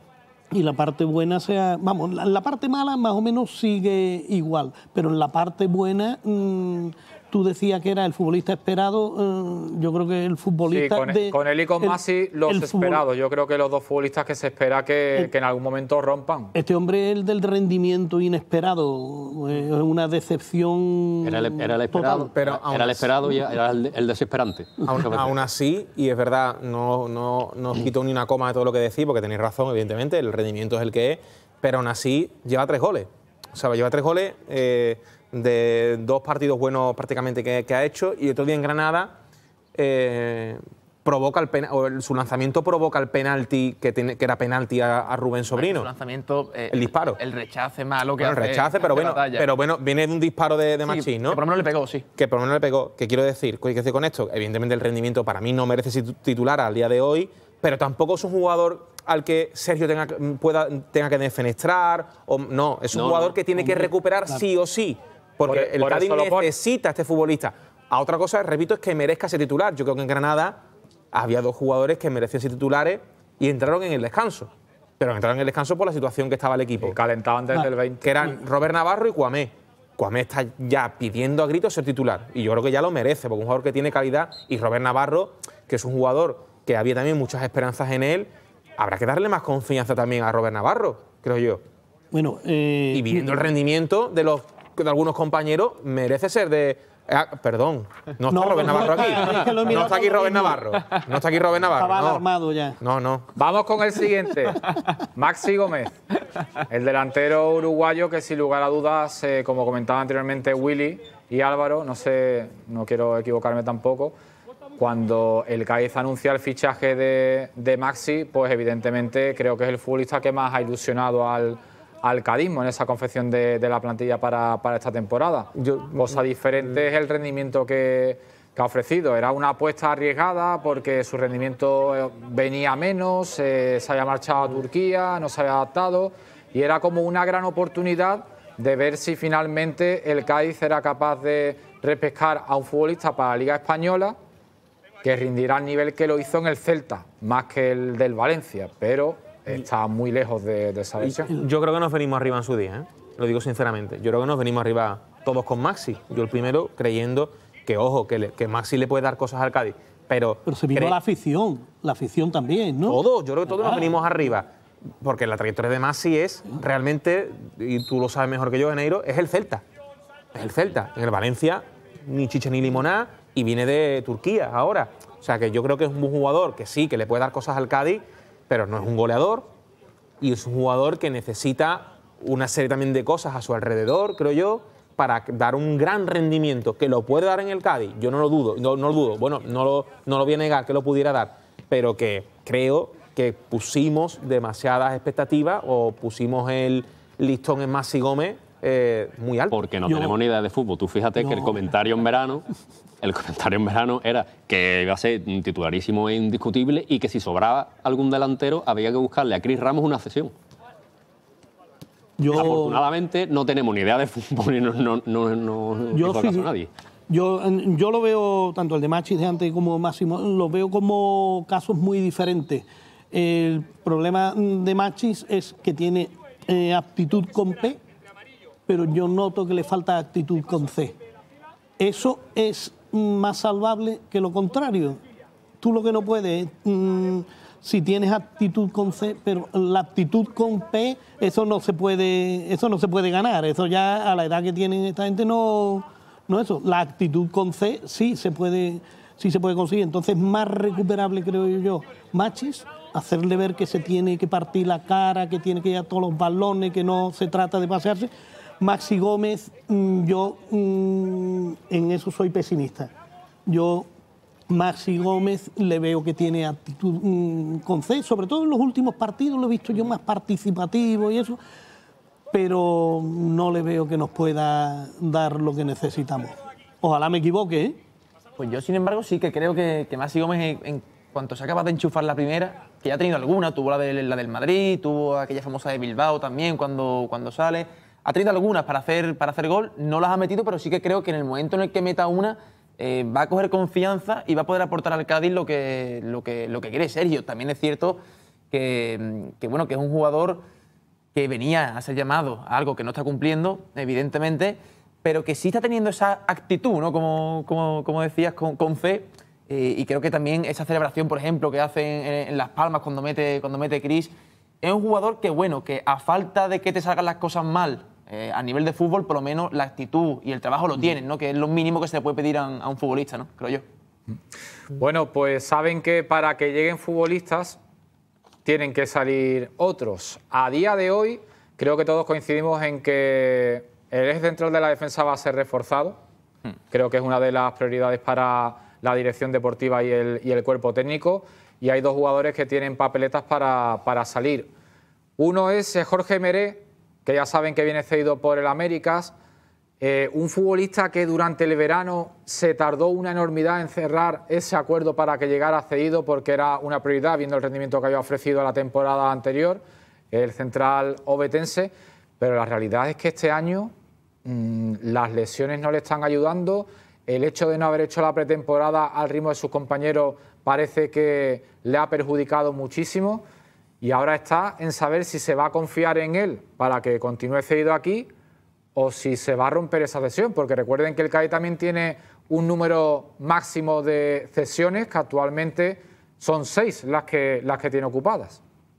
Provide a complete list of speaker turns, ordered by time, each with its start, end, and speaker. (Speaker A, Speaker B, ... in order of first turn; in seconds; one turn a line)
Speaker A: 0.5-13.0
Speaker B: 10.7-16.5
Speaker A: 16.5-22.3
Speaker C: 21.2-25.3
Speaker D: 22.2-23.2
Speaker D: 24.9-39.2
Speaker D: 39.8-45.9
Speaker E: 45.5-49.5
Speaker D: 46.7-47.2
Speaker D: 48.2-51.4
Speaker E: 50.9-52.0
Speaker D: 52.2-70.6
Speaker C: 62.9-63.4
Speaker B: 65.5-66.5
Speaker D: 71.1-77.0
Speaker B: 76.8-78.2
Speaker D: 78.0-91.6
Speaker A: 92.1-93.4
Speaker D: 92.9-102.2
Speaker A: 98.3-100.7
Speaker A: 101.8-102.8
Speaker D: 102.8-103.3
Speaker B: 103.3-106.0
Speaker B: 106.7-114.1
Speaker B: 114.8-144.2
Speaker D: 125.5-126.2
Speaker B: 145.0-151.3
Speaker D: 151.3-161.0
Speaker A: 160.5-163.0
Speaker D: 162.9-164.5
Speaker D: 165.0-169.6
Speaker D: 170.3-179.5
Speaker D: 180.2-199.6
Speaker C: 199.5-202.4
Speaker A: 199.9-200.2
Speaker A: 201.2-201.6
Speaker C: 203.0-210.3
Speaker A: 212.2-212.8
Speaker C: 212.3-216.7
Speaker A: 215.9-216.5
Speaker A: 217.1-227.8
Speaker A: 228.7-231.0
Speaker A: 231.8-235.0
Speaker A: 235.6-262.9
Speaker A: 263.5-263.9
Speaker A: 264.5-271.4
Speaker A: 272.3-277.8
Speaker E: 278.4-298.0
Speaker E: 298.5-300.4
Speaker E: 301.1-323.6
Speaker B: 324.8-327.6
Speaker B: 328.4-336.0
Speaker B: 336.7-344.5
Speaker B: 345.2-349.1
Speaker B: 349.8-363.7
Speaker B: 364.2-373.2
Speaker B: 373.8-378.1
Speaker B: 378.8-388.4